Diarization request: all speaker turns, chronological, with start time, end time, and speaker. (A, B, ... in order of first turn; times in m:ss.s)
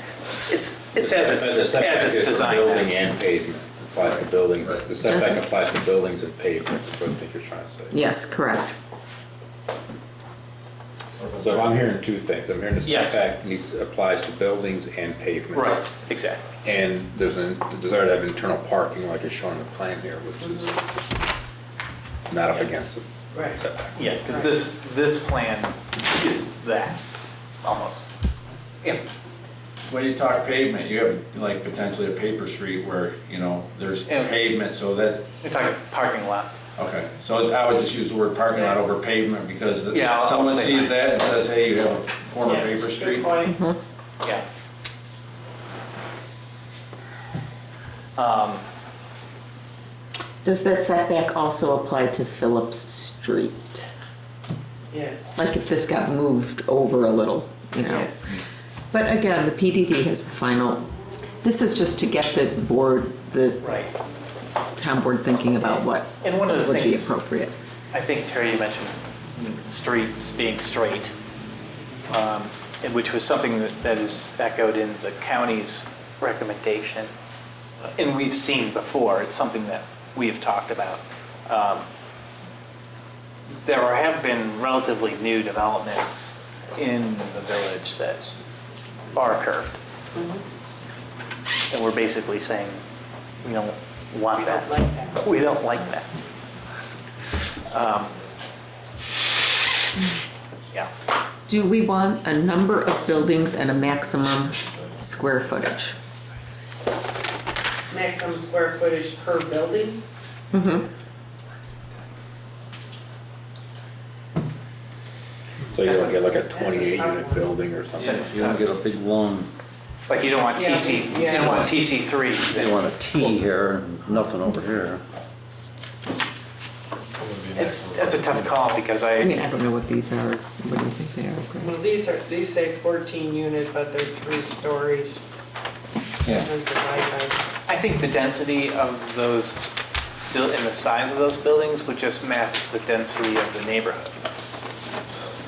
0:00.5-0:02.9 A
0:01.0-0:08.0 B
0:04.0-0:04.8 C
0:05.0-0:05.4 D
0:07.9-0:08.8 D
0:11.2-0:11.7 C
0:11.4-0:15.9 B
0:12.8-0:13.3 A
0:15.5-0:16.4 A
0:16.6-0:20.8 B
0:22.3-0:24.0 B
0:23.3-0:23.6 E
0:23.9-0:27.0 A
0:27.6-0:28.0 A
0:29.9-0:35.2 C
0:34.0-0:34.4 A
0:35.4-0:36.5 A
0:36.8-0:43.4 C
0:39.9-0:41.2 A
0:42.4-0:43.6 E
0:43.5-0:43.8 D
0:48.2-0:48.6 A
0:50.4-0:53.9 D
0:54.9-0:55.3 E
0:55.3-0:58.1 D
0:57.8-0:58.2 E
0:58.9-1:00.9 D
1:01.4-1:03.6 D
1:03.6-1:03.9 A
1:04.7-1:07.5 D
1:05.6-1:07.1 A
1:07.9-1:11.1 A
1:12.1-1:17.1 A
1:18.0-1:21.9 A
1:23.6-1:28.3 A
1:29.1-1:29.8 A
1:30.1-1:30.4 E
1:31.7-1:32.8 A
1:33.4-1:36.1 A
1:34.3-1:35.3 E
1:37.2-1:38.1 A
1:41.5-1:45.9 D
1:47.9-1:50.0 E
1:50.5-1:50.8 D
1:55.7-1:58.3 B
1:55.8-1:56.4 A
1:56.5-1:57.5 E
1:58.0-1:58.7 A
1:58.0-1:59.5 F
2:00.1-2:02.8 A
2:00.5-2:01.7 E
2:02.5-2:05.0 F
2:07.2-2:08.6 C
2:07.5-2:09.3 A
2:09.2-2:11.8 D
2:11.6-2:15.2 E
2:16.3-2:17.4 E
2:17.7-2:19.6 A
2:20.3-2:24.2 A